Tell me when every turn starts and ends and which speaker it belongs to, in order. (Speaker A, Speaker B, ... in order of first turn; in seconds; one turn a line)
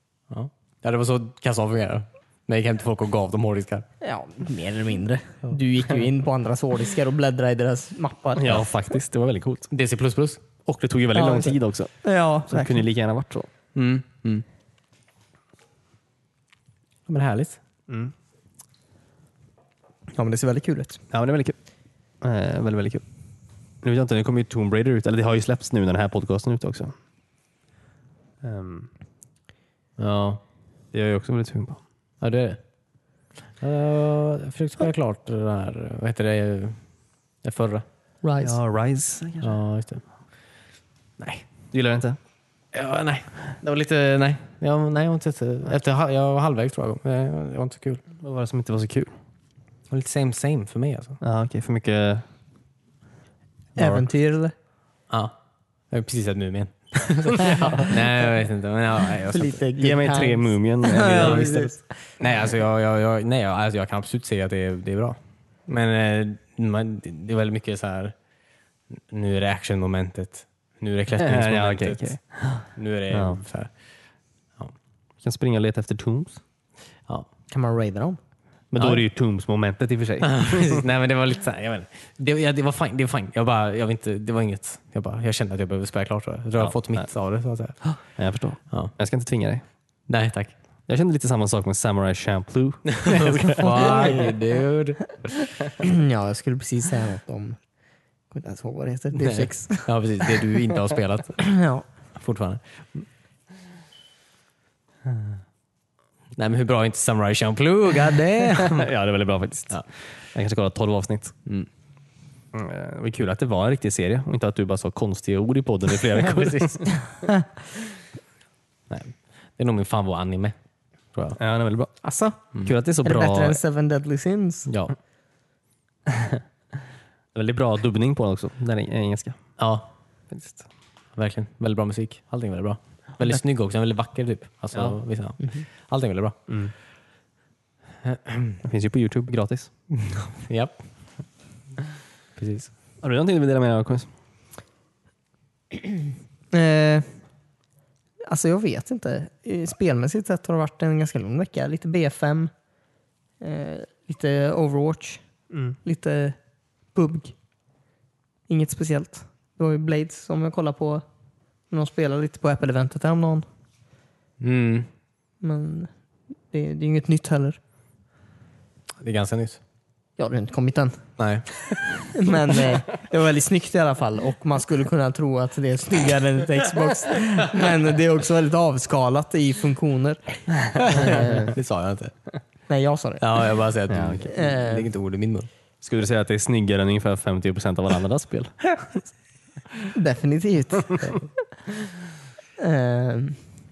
Speaker A: 0.3-3.9
Speaker B: 4.0-8.6
Speaker C: 8.3-9.7
Speaker A: 9.7-10.4
Speaker C: 10.6-11.9
Speaker B: 11.1-12.8
Speaker C: 12.5-13.5
Speaker A: 13.7-14.4
Speaker A: 17.1-17.6
Speaker C: 17.9-18.1
Speaker B: 20.1-21.0
Speaker C: 21.1-21.6
Speaker C: 22.2-23.0
Speaker C: 23.8-26.9
Speaker C: 28.4-28.9
Speaker A: 30.0-30.4
Speaker C: 30.9-31.8
Speaker A: 32.2-32.6
Speaker A: 33.6-36.8
Speaker A: 37.4-37.8
Speaker B: 38.2-38.6
Speaker C: 38.4-39.6
Speaker A: 39.4-40.0
Speaker A: 41.2-41.4
Speaker C: 41.7-42.2
Speaker A: 42.7-48.0
Speaker C: 48.2-49.1
Speaker A: 49.9-51.2
Speaker C: 51.2-52.2
Speaker B: 53.8-54.5
Speaker A: 55.9-59.6
Speaker B: 57.5-57.8
Speaker B: 59.3-61.8
Speaker C: 59.8-61.8
Speaker A: 61.2-61.4
Speaker A: 62.2-68.1
Speaker A: 69.0-73.7
Speaker C: 71.2-73.4
Speaker C: 75.2-76.4
Speaker B: 77.5-78.2
Speaker C: 78.7-80.8
Speaker A: 78.8-79.0
Speaker A: 80.2-88.0
Speaker C: 86.6-87.1
Speaker C: 87.9-89.6
Speaker A: 90.1-90.5
Speaker C: 90.9-94.2
Speaker A: 92.9-95.2
Speaker B: 93.8-94.2
Speaker B: 95.8-97.6
Speaker B: 98.3-99.9
Speaker A: 99.2-101.4
Speaker B: 101.4-101.8
Speaker A: 102.2-103.0
Speaker A: 106.3-108.9
Speaker C: 108.6-111.3
Speaker C: 112.5-116.8
Speaker A: 116.0-116.9
Speaker A: 118.9-120.5
Speaker C: 121.4-121.9
Speaker B: 122.0-122.4
Speaker C: 122.5-123.6
Speaker B: 123.0-124.7
Speaker C: 127.3-129.4
Speaker A: 129.6-129.9
Speaker C: 130.3-130.6
Speaker A: 131.1-136.5
Speaker A: 138.0-138.6
Speaker C: 138.6-139.7
Speaker A: 139.9-140.8
Speaker A: 142.4-142.7
Speaker C: 143.0-144.1
Speaker B: 146.5-147.2
Speaker B: 148.2-152.5
Speaker B: 153.4-155.2
Speaker C: 155.5-155.8
Speaker B: 155.8-156.4
Speaker B: 156.9-157.3
Speaker B: 158.5-161.0
Speaker B: 161.7-163.4
Speaker A: 164.4-164.9
Speaker B: 165.4-165.9
Speaker B: 166.5-167.6
Speaker A: 169.0-169.6
Speaker B: 170.2-171.0
Speaker A: 171.2-171.7
Speaker B: 172.1-181.6
Speaker A: 180.8-182.1
Speaker B: 182.7-183.2
Speaker A: 183.2-185.5
Speaker C: 183.9-184.3
Speaker B: 184.2-184.9
Speaker C: 185.8-189.0
Speaker B: 189.9-191.1
Speaker B: 192.6-193.4